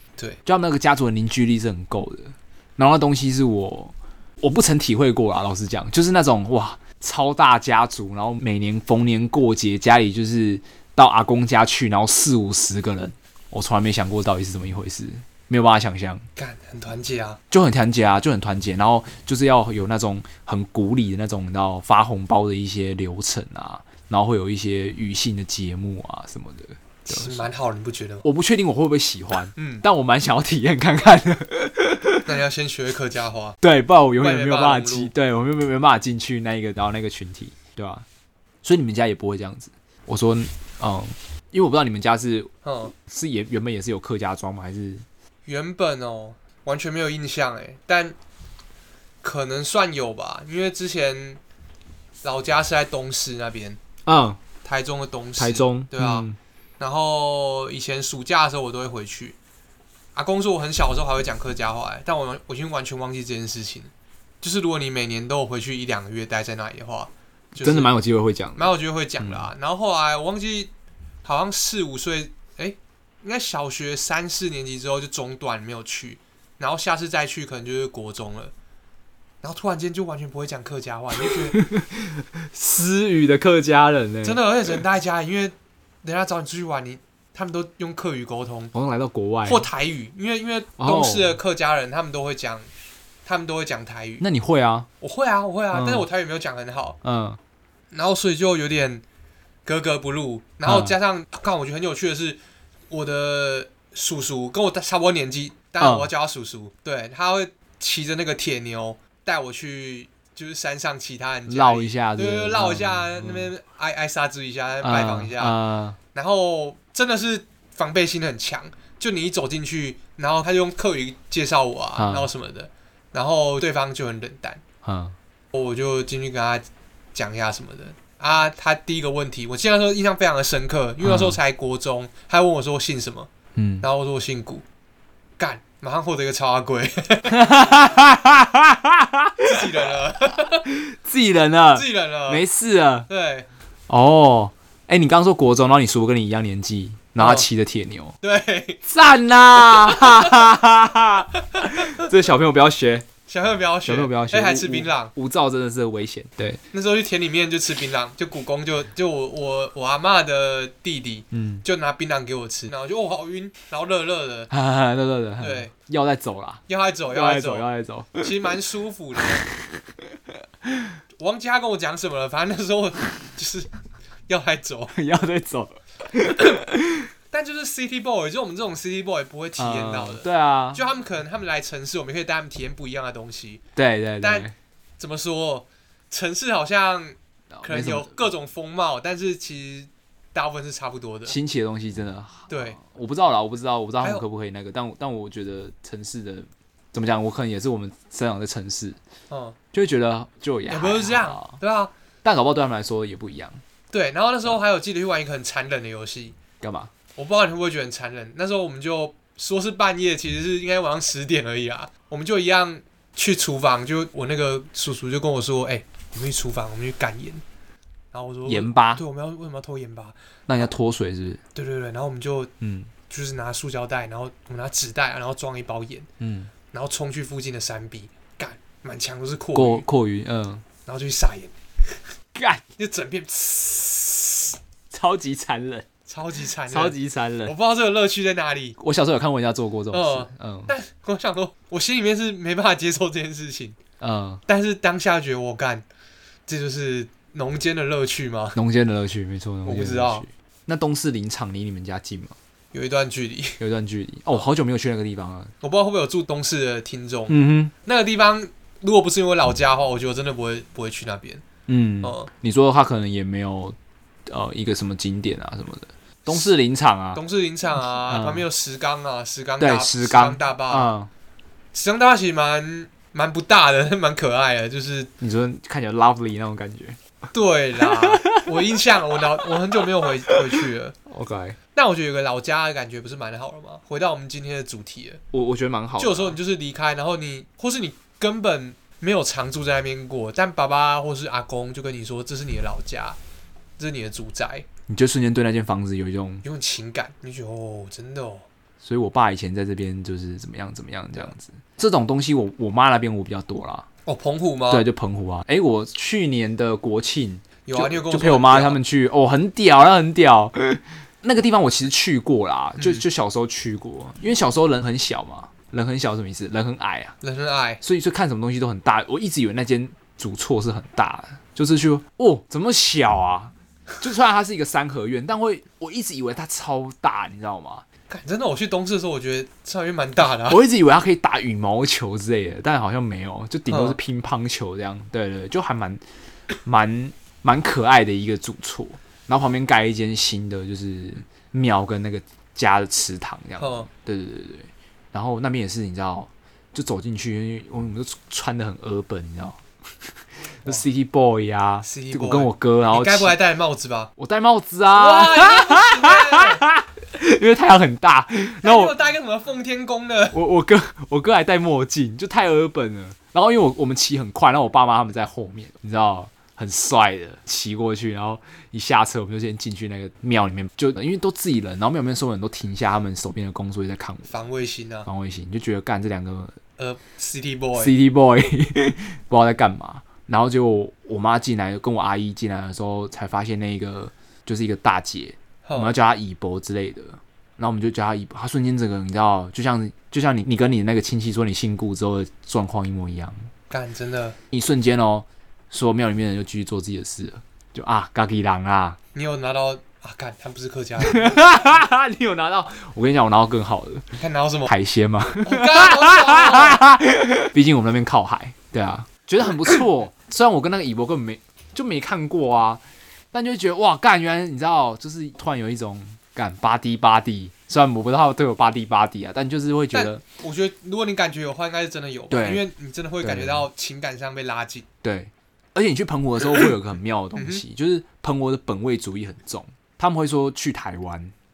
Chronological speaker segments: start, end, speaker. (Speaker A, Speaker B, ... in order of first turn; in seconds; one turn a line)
Speaker A: 0.5-16.2
Speaker B: 16.4-17.4
Speaker A: 17.5-27.5
Speaker B: 27.1-28.3
Speaker A: 28.2-32.3
Speaker B: 29.6-29.8
Speaker B: 32.3-33.6
Speaker A: 33.6-38.0
Speaker B: 34.2-35.1
Speaker A: 38.6-45.0
Speaker B: 42.6-42.9
Speaker B: 45.5-48.2
Speaker B: 49.2-51.4
Speaker B: 52.2-53.8
Speaker A: 54.1-54.4
Speaker B: 54.6-56.3
Speaker A: 55.4-56.4
Speaker B: 56.8-59.4
Speaker B: 60.1-67.9
Speaker A: 67.6-69.5
Speaker B: 68.6-70.7
Speaker B: 71.2-78.5
Speaker B: 79.4-81.6
Speaker A: 81.2-84.4
Speaker B: 84.2-88.7
Speaker A: 88.7-89.7
Speaker B: 89.5-92.7
Speaker A: 90.8-91.4
Speaker B: 93.2-94.2
Speaker A: 94.2-94.9
Speaker B: 95.0-97.0
Speaker A: 95.7-96.1
Speaker A: 97.0-97.4
Speaker B: 97.9-99.0
Speaker B: 99.7-102.4
Speaker A: 100.7-101.0
Speaker B: 102.9-115.6
Speaker A: 105.8-106.1
Speaker A: 111.5-113.5
Speaker A: 114.8-116.0
Speaker B: 116.1-124.6
Speaker A: 122.0-122.3
Speaker A: 124.8-125.2
Speaker B: 125.5-133.3
Speaker A: 131.0-131.4
Speaker A: 133.5-133.9
Speaker B: 133.8-134.6
Speaker B: 135.4-137.5
Speaker A: 137.3-139.6
Speaker B: 139.4-140.7
Speaker A: 140.7-143.1
Speaker B: 141.7-142.4
Speaker B: 143.1-143.5
Speaker A: 143.9-148.2
Speaker B: 147.2-147.5
Speaker B: 148.2-148.8
Speaker A: 148.8-153.1
Speaker B: 149.6-150.4
Speaker B: 151.5-152.1
Speaker B: 153.3-155.1
Speaker A: 153.8-156.6
Speaker B: 156.7-164.5
Speaker A: 161.3-161.7
Speaker A: 164.5-168.3
Speaker B: 165.4-165.7
Speaker B: 166.7-167.7
Speaker B: 168.2-169.4
Speaker A: 169.2-169.6
Speaker A: 170.7-170.9
Speaker B: 171.2-173.7
Speaker B: 174.3-174.9
Speaker A: 174.9-177.1
Speaker B: 177.3-183.6
Speaker A: 179.6-180.8
Speaker A: 183.8-184.5
Speaker B: 184.2-184.5
Speaker B: 185.0-191.3
Speaker A: 187.5-188.2
Speaker A: 191.3-199.0
Speaker B: 192.5-192.8
Speaker B: 199.3-199.6
Speaker A: 199.7-201.6
Speaker B: 200.7-201.9
Speaker A: 202.2-203.6
Speaker B: 203.9-206.3
Speaker A: 206.6-206.9
Speaker B: 207.2-217.4
Speaker B: 218.1-220.2
Speaker A: 218.5-219.0
Speaker A: 220.5-221.4
Speaker B: 221.5-222.5
Speaker A: 222.6-222.9
Speaker B: 223.1-226.1
Speaker A: 226.2-226.5
Speaker B: 226.7-229.8
Speaker A: 229.5-230.6
Speaker B: 230.8-232.0
Speaker A: 232.3-232.6
Speaker B: 232.8-234.6
Speaker A: 234.9-235.9
Speaker B: 236.1-238.8
Speaker A: 236.7-237.5
Speaker A: 238.8-240.7
Speaker B: 239.9-243.8
Speaker A: 244.0-244.4
Speaker B: 244.5-245.8
Speaker B: 246.5-248.6
Speaker A: 248.6-252.3
Speaker B: 249.6-250.3
Speaker B: 252.7-253.6
Speaker A: 253.6-255.5
Speaker B: 255.6-261.4
Speaker A: 257.3-257.7
Speaker A: 261.7-263.8
Speaker B: 262.0-262.3
Speaker A: 264.3-267.2
Speaker B: 267.1-270.9
Speaker A: 268.1-268.4
Speaker A: 269.6-271.1
Speaker B: 271.7-275.1
Speaker A: 275.2-277.0
Speaker B: 277.3-280.9
Speaker A: 277.8-278.7
Speaker A: 279.4-281.6
Speaker B: 281.8-285.2
Speaker A: 285.3-286.4
Speaker B: 286.0-293.2
Speaker B: 293.8-294.7
Speaker A: 294.9-296.4
Speaker B: 296.4-298.5
Speaker A: 298.8-303.9
Speaker B: 304.1-304.9
Speaker A: 304.7-317.1
Speaker B: 307.6-308.8
Speaker B: 312.8-313.0
Speaker B: 317.2-317.8
Speaker A: 317.8-327.9
Speaker B: 328.1-330.6
Speaker A: 330.5-336.0
Speaker B: 333.7-334.0
Speaker A: 336.6-349.6
Speaker B: 343.6-343.9
Speaker A: 350.6-353.4
Speaker B: 351.8-354.1
Speaker A: 354.2-358.9
Speaker B: 354.9-356.6
Speaker B: 358.6-360.4
Speaker A: 360.3-374.3
Speaker B: 374.3-375.1
Speaker A: 375.1-376.6
Speaker B: 376.8-377.9
Speaker A: 377.8-393.5
Speaker B: 385.6-385.9
Speaker B: 393.7-394.4
Speaker A: 394.5-399.0
Speaker B: 399.1-401.5
Speaker A: 401.0-404.1
Speaker B: 404.2-404.7
Speaker A: 404.7-420.2
Speaker B: 405.4-406.8
Speaker B: 419.9-424.9
Speaker A: 422.3-422.6
Speaker A: 423.2-423.6
Speaker A: 425.0-431.3
Speaker B: 427.4-427.6